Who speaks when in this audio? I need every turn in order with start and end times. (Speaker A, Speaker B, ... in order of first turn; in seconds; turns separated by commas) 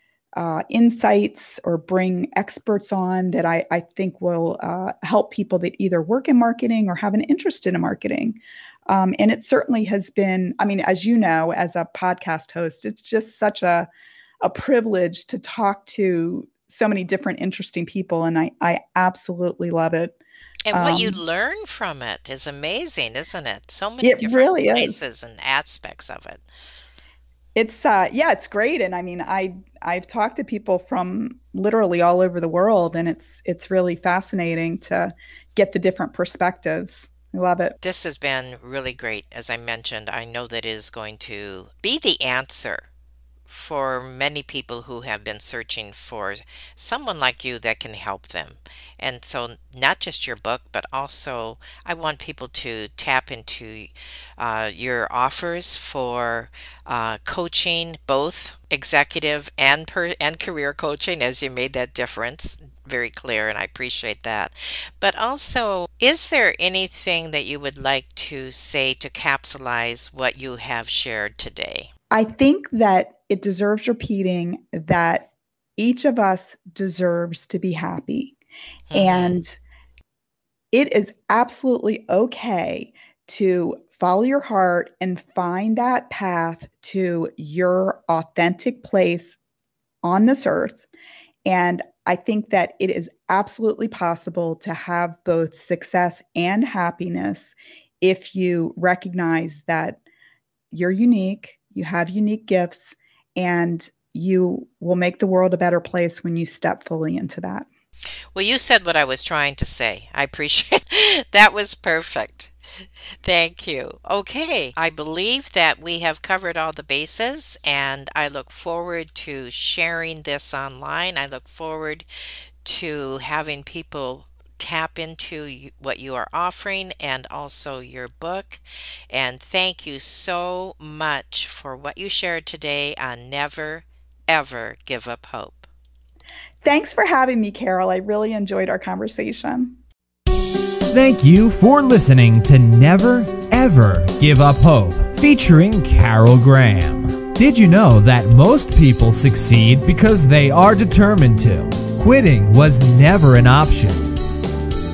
Speaker A: 0.4-13.9, Speaker A: 14.4-20.2, Speaker B: 20.7-26.4, Speaker A: 20.7-21.2, Speaker A: 24.0-25.0, Speaker A: 27.6-37.8, Speaker B: 37.8-42.9, Speaker B: 43.5-71.9, Speaker A: 72.1-78.4, Speaker B: 78.9-79.4, Speaker A: 78.9-79.6, Speaker A: 80.7-89.4, Speaker A: 90.0-90.8, Speaker A: 91.5-100.0, Speaker A: 100.7-107.7, Speaker B: 108.3-112.5, Speaker B: 113.2-122.1, Speaker B: 122.6-135.7, Speaker A: 136.6-139.8, Speaker C: 140.9-154.1